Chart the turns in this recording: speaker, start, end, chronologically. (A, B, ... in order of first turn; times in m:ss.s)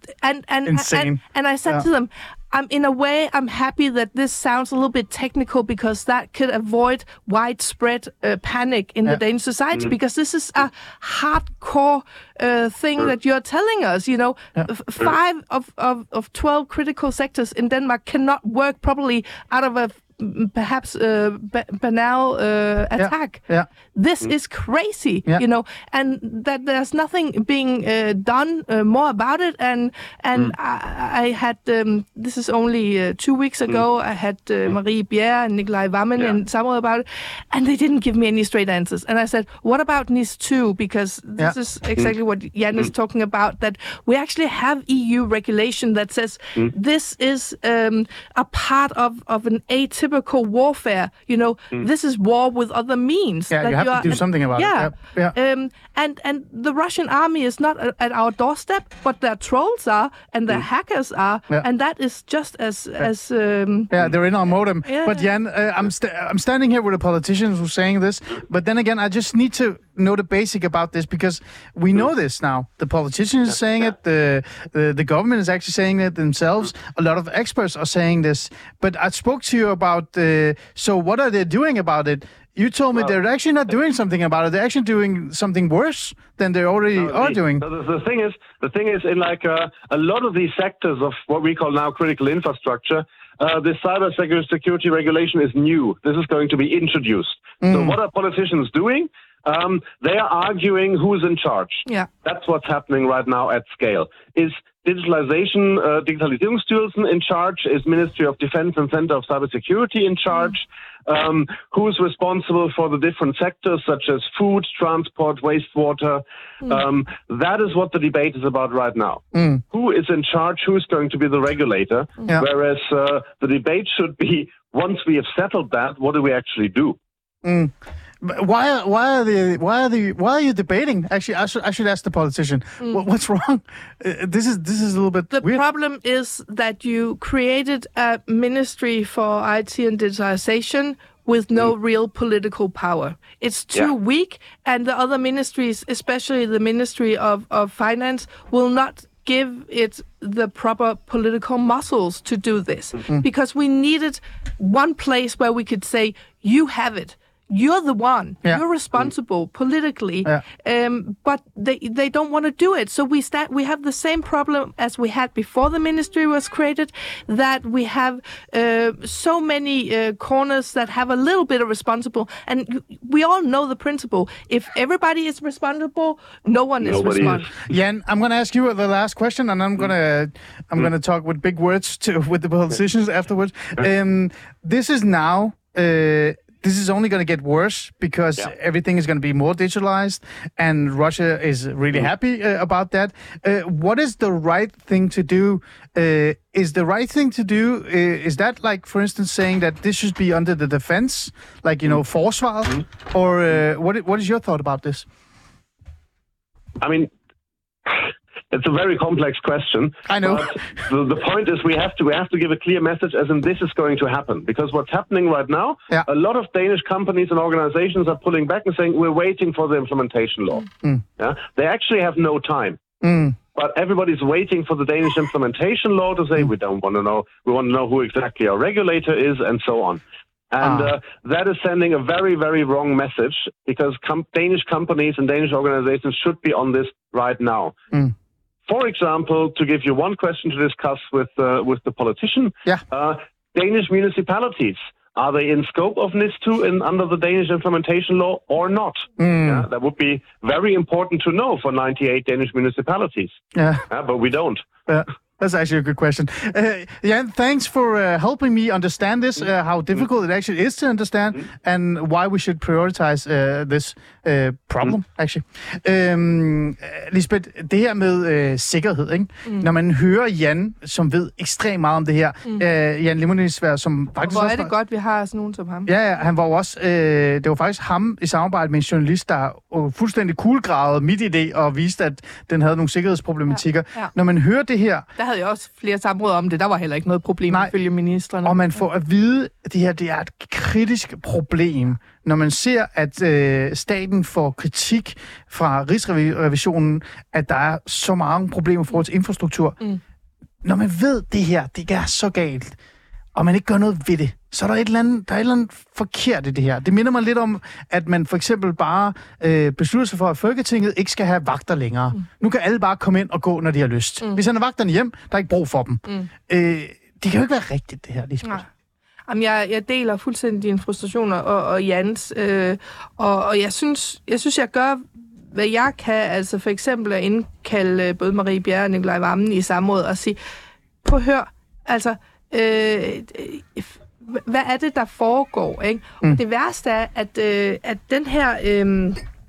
0:00.2-1:03.9 A
0:00.7-0:01.9 B
0:23.0-0:23.7 B
0:53.5-0:55.4 B
1:03.9-1:27.6 B
1:04.8-1:05.2 A
1:27.0-2:07.0 C
1:37.6-1:38.0 B
1:59.3-1:59.6 B
2:07.4-2:15.6 B
2:15.3-2:57.5 A
2:56.8-2:57.6 C
2:57.7-3:25.0 B
3:26.8-3:27.1 C
3:27.9-3:40.7 C
3:30.1-3:30.8 B
3:41.2-3:42.8 C
3:43.0-3:43.4 B
3:43.5-3:57.8 C
3:50.6-3:50.9 B
3:58.7-4:13.4 C
4:09.2-4:09.7 B
4:13.6-4:13.8 B
4:13.9-4:14.7 C
4:14.9-4:34.7 B
4:34.2-4:35.9 A
4:35.9-4:45.0 B
4:45.2-4:48.7 A
4:48.4-4:59.8 B
5:00.6-5:02.8 B
5:03.4-5:18.6 B
5:19.3-5:30.4 A
5:31.0-5:39.2 A